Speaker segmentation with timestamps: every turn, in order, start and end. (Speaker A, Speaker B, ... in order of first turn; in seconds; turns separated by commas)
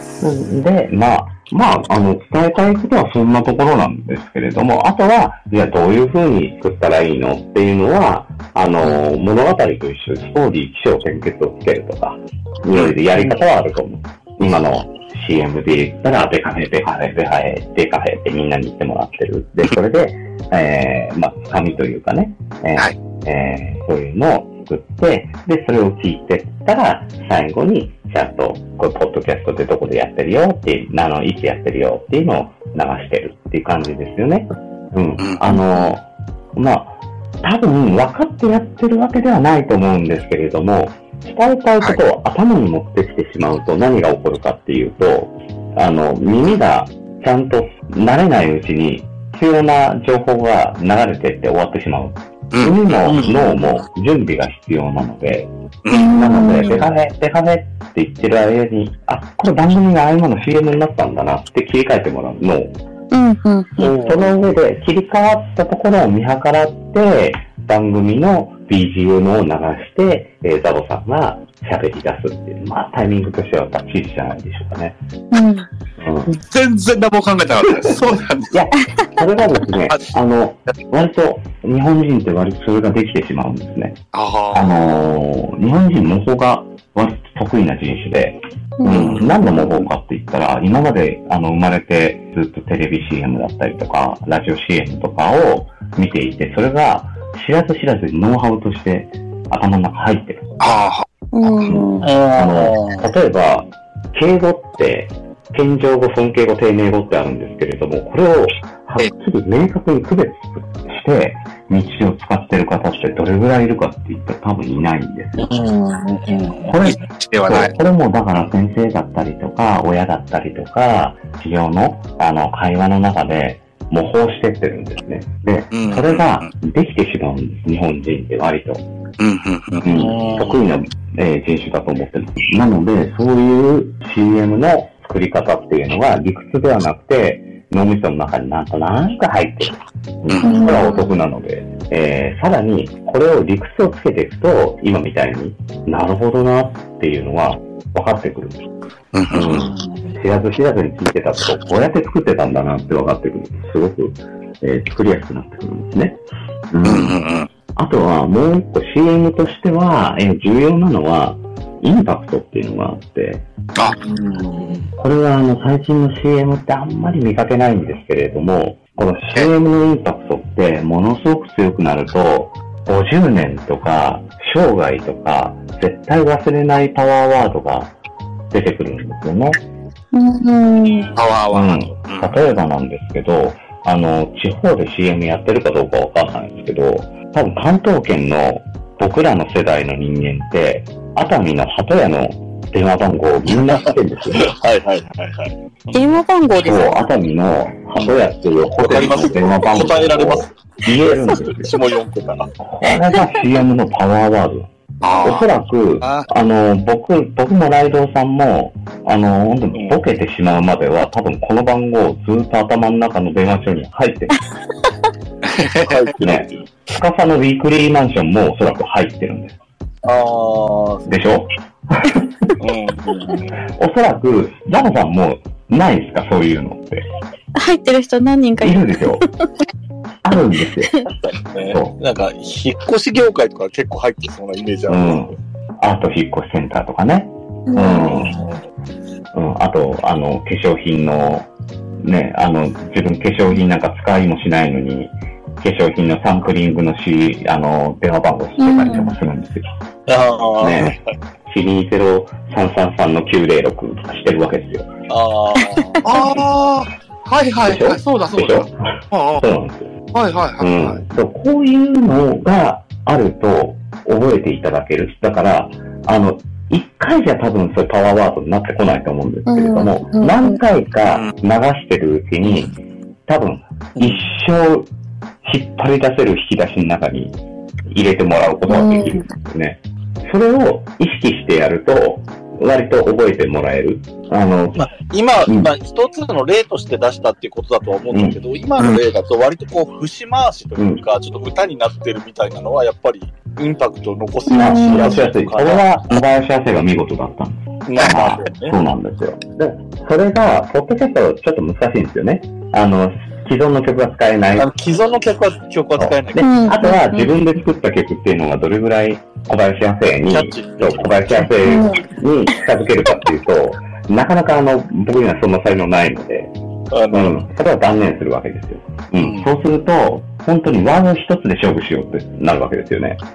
Speaker A: 0.2-36.0, Speaker A: 36.5-55.5, Speaker B: 52.5-52.9, Speaker C: 53.0-53.4, Speaker D: 55.9-56.8, Speaker A: 56.1-62.7, Speaker D: 63.1-64.0, Speaker A: 63.8-75.0, Speaker C: 63.8-64.3, Speaker D: 75.3-75.7, Speaker A: 76.0-76.3, Speaker B: 76.5-78.5, Speaker A: 78.5-84.0, Speaker B: 84.1-84.8, Speaker A: 84.5-100.4, Speaker D: 88.8-89.3, Speaker B: 88.9-89.2, Speaker B: 100.6-101.0, Speaker D: 101.3-102.1, Speaker A: 101.6-115.5, Speaker C: 102.0-103.1, Speaker C: 115.4-116.7, Speaker A: 116.7-128.8, Speaker B: 116.8-117.7, Speaker B: 125.7-126.5, Speaker B: 129.2-129.8, Speaker A: 129.8-148.6, Speaker C: 129.9-130.6, Speaker D: 140.4-141.2, Speaker B: 149.1-149.6, Speaker A: 149.3-157.2, Speaker C: 149.5-150.1, Speaker B: 156.8-157.5, Speaker A: 157.8-163.4, Speaker C: 164.0-164.9, Speaker A: 165.0-177.9, Speaker A: 178.5-179.6, Speaker D: 180.1-181.2, Speaker B: 181.2-182.4, Speaker A: 181.5-194.5, Speaker C: 193.5-195.5, Speaker D: 195.9-197.1, Speaker A: 196.6-201.7, Speaker C: 198.7-200.5, Speaker C: 201.2-202.5, Speaker A: 202.6-204.7, Speaker B: 205.0-205.5, Speaker A: 205.2-214.3, Speaker B: 206.0-206.3, Speaker B: 215.5-215.9, Speaker C: 215.8-216.5, Speaker A: 216.2-219.6, Speaker C: 220.0-221.0, Speaker A: 221.1-222.5, Speaker C: 222.6-223.5, Speaker A: 223.8-227.0, Speaker D: 227.6-229.3, Speaker A: 228.6-229.2, Speaker A: 230.2-230.9, Speaker C: 231.1-235.3, Speaker A: 231.7-232.0, Speaker A: 234.9-238.3, Speaker D: 237.7-238.3, Speaker C: 238.0-238.6, Speaker A: 239.3-241.5, Speaker A: 242.0-249.7, Speaker D: 248.6-249.1, Speaker C: 250.1-251.1, Speaker A: 250.6-254.9, Speaker C: 255.1-256.4, Speaker B: 256.0-259.4, Speaker A: 257.6-259.9, Speaker B: 260.1-261.0, Speaker A: 260.6-272.7, Speaker D: 269.5-270.6, Speaker A: 273.3-274.9, Speaker A: 275.4-277.4, Speaker A: 277.9-284.9, Speaker D: 278.7-279.3, Speaker C: 284.8-295.9, Speaker A: 285.4-285.7, Speaker A: 288.1-288.4, Speaker A: 290.8-291.0, Speaker D: 294.5-295.2, Speaker A: 294.5-304.7, Speaker C: 297.9-298.8, Speaker C: 304.6-306.7, Speaker A: 305.9-316.5, Speaker D: 306.4-307.3, Speaker C: 310.3-311.5, Speaker D: 311.6-312.0, Speaker C: 316.9-317.4, Speaker A: 317.1-323.2, Speaker C: 319.2-319.5